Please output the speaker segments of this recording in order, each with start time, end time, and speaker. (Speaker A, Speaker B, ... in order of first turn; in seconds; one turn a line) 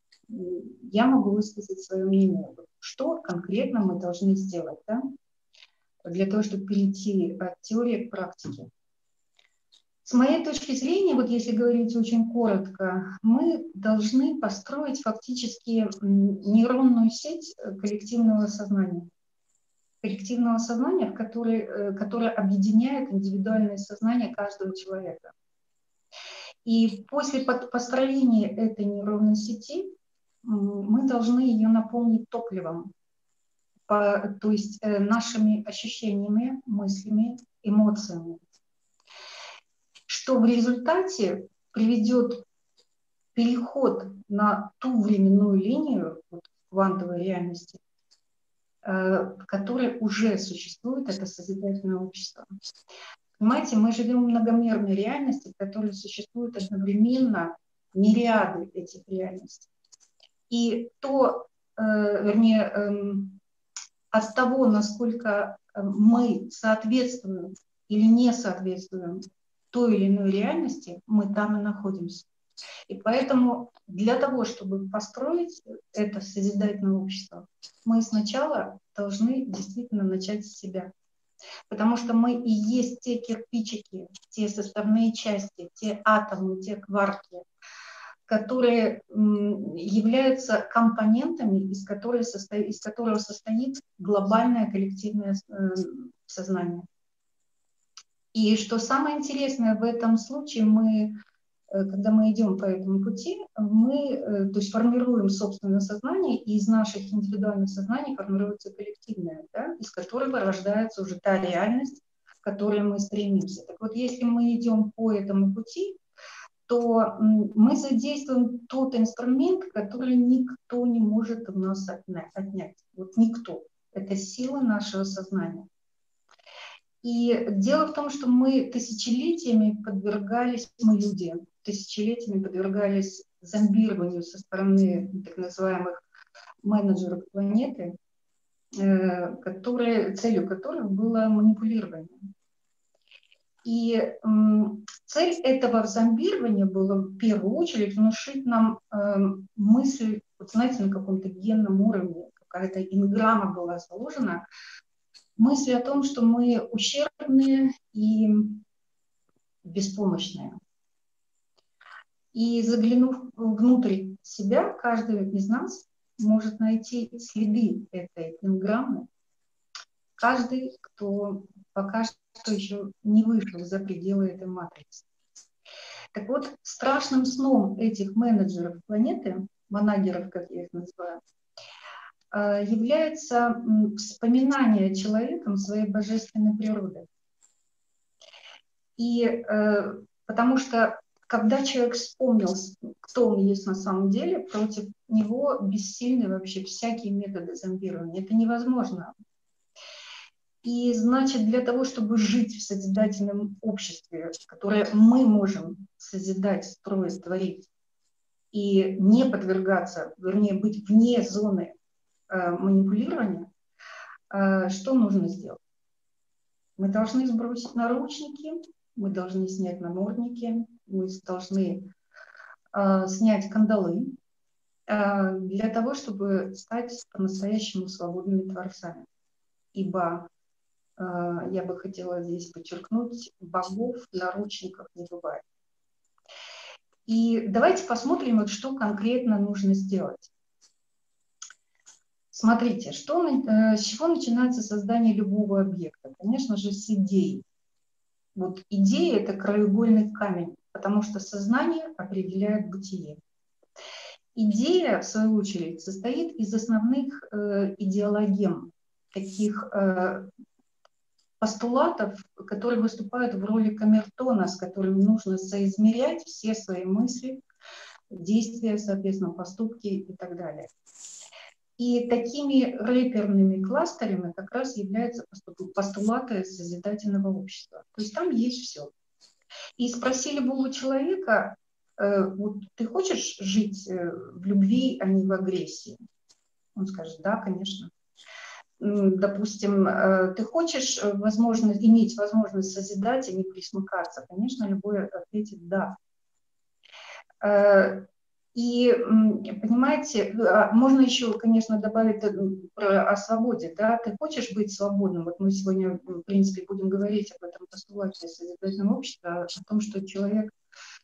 Speaker A: 0.3-5.1
Speaker A: 6.0-8.7
Speaker A: 10.1-19.1
Speaker A: 20.0-25.3
Speaker A: 26.6-32.9
Speaker A: 33.9-38.4
Speaker A: 40.1-42.4
Speaker A: 43.4-47.8
Speaker A: 48.8-52.5
Speaker A: 53.4-59.7
Speaker A: 60.5-63.4
Speaker A: 64.1-72.3
Speaker A: 72.9-80.9
Speaker A: 81.7-87.5
Speaker A: 88.3-96.9
Speaker A: 98.3-101.2
Speaker A: 101.7-116.0
Speaker A: 116.7-125.7
Speaker A: 127.0-136.0
Speaker A: 136.6-138.0
Speaker A: 138.8-142.3
Speaker A: 143.7-154.5
Speaker A: 155.4-158.6
Speaker A: 159.7-160.6
Speaker A: 162.3-169.1
Speaker A: 170.2-175.1
Speaker A: 176.1-181.2
Speaker A: 182.3-187.1
Speaker A: 189.0-199.1
Speaker A: 200.6-207.7
Speaker A: 208.5-211.7
Speaker A: 212.3-213.5
Speaker A: 214.3-215.6
Speaker A: 216.8-221.9
Speaker A: 222.7-224.2
Speaker A: 224.9-229.1
Speaker A: 229.7-230.3
Speaker A: 231.0-235.4
Speaker A: 237.1-240.3
Speaker A: 242.3-247.4
Speaker A: 248.3-253.2
Speaker A: 254.3-260.3
Speaker A: 261.4-267.4
Speaker A: 268.1-270.7
Speaker A: 271.8-278.9
Speaker A: 279.8-286.0
Speaker A: 286.8-287.9
Speaker A: 288.8-296.0
Speaker A: 297.4-310.5